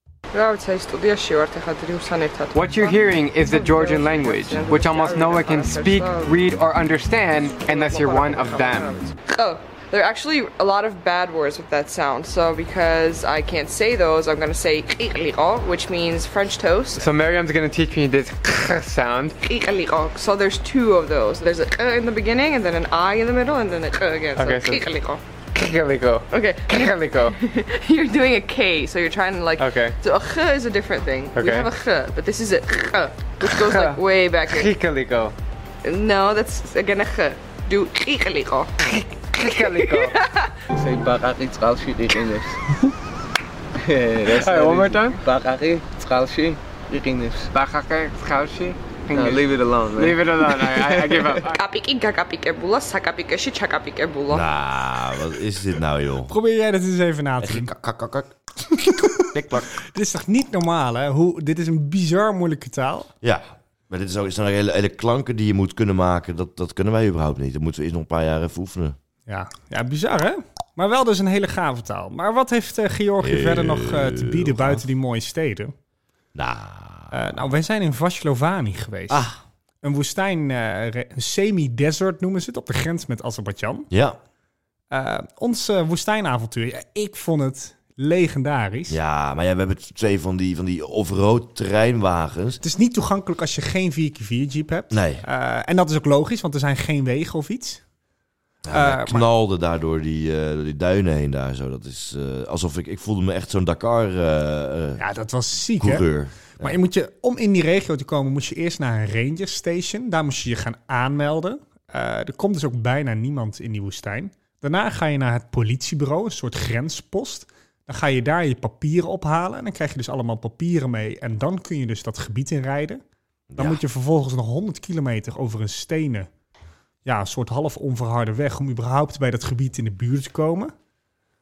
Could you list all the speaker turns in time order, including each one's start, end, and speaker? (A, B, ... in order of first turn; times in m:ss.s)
0:00.3-0:06.4 A
0:02.5-0:09.1 B
0:07.6-0:17.1 A
0:17.0-0:19.3 B
0:19.4-0:25.2 A
0:24.3-0:24.8 B
0:25.5-0:27.3 B
0:26.3-0:34.7 A
0:29.6-0:30.0 B
0:31.3-0:31.7 B
0:33.4-0:35.3 B
0:35.8-0:38.7 A
0:38.9-0:40.2 B
0:39.4-0:40.5 A
0:40.7-0:42.6 C
0:43.8-0:47.5 C
0:44.2-0:45.2 B
0:47.5-0:51.5 B
0:49.1-0:51.2 C
0:51.4-0:54.4 A
0:54.3-0:56.3 D
0:56.3-0:57.7 E
0:57.4-0:59.7 D
0:58.8-0:59.1 E
0:59.8-1:03.1 E
1:03.2-1:09.0 D
1:09.3-1:15.7 E
1:13.2-1:14.8 D
1:16.3-1:17.1 D
1:17.1-1:19.2 E
1:19.1-1:19.4 D
1:19.8-1:23.9 E
1:23.9-1:24.2 D
1:24.9-1:29.0 E
1:28.9-1:32.6 D
1:32.6-1:37.8 E
1:34.9-1:35.2 D
1:38.6-1:45.0 D
1:38.7-1:39.2 E
1:45.0-1:46.0 E
1:45.8-1:46.8 D
1:46.6-2:03.0 E
2:03.5-2:03.8 D
2:03.6-2:06.3 E
2:07.0-2:10.7 E